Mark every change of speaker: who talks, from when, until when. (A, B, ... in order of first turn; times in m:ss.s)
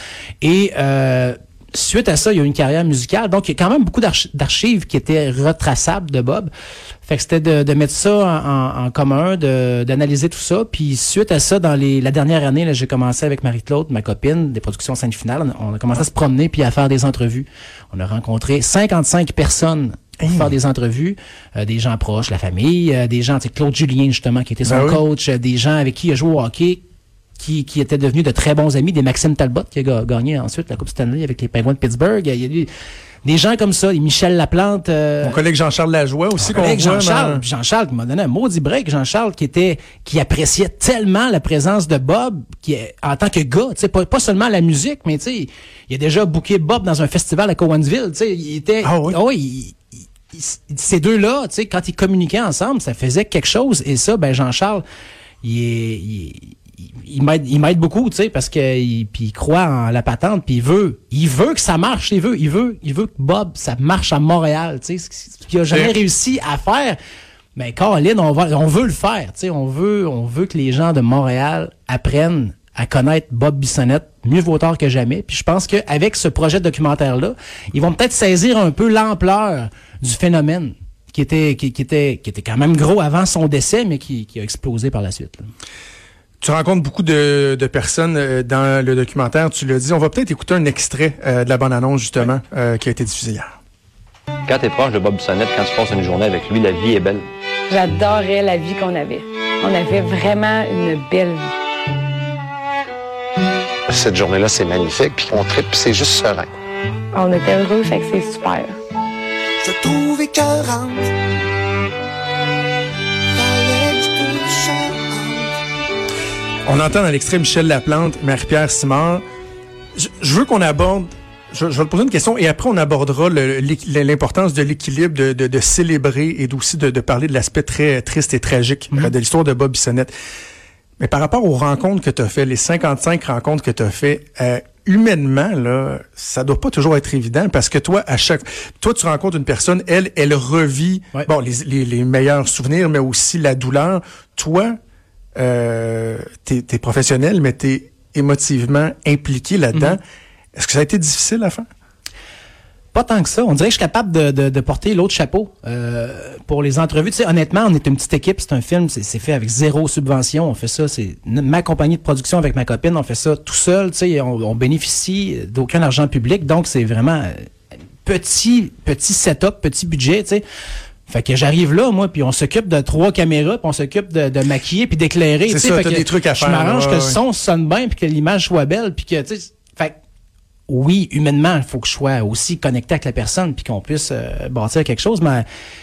0:00.4-0:06.5 A
0:07.0-0:26.8 A
0:20.2-0:20.5 B
0:24.6-0:25.0 B
0:27.4-0:32.7 A
0:33.2-0:35.4 A
0:35.2-0:37.4 B
0:36.4-0:49.8 A
0:48.8-0:49.2 B
0:50.3-0:54.8 A
0:55.4-1:07.0 A
1:05.7-1:06.0 B
1:07.6-1:25.5 A
1:26.4-1:33.5 B
1:34.5-1:37.2 C
1:37.7-1:41.5 D
1:43.9-1:46.5 E
1:47.1-1:48.8 D
1:49.6-1:51.1 F
1:53.3-1:55.6 F
1:56.7-1:59.2 B
2:00.0-2:10.1 B
2:11.0-2:24.8 B
2:25.4-2:30.0 B
2:30.6-2:31.7 B
2:32.9-2:47.3 A
2:48.0-2:50.4 A
2:51.1-2:59.9 A
2:55.5-2:57.2 B
3:00.7-3:05.4 A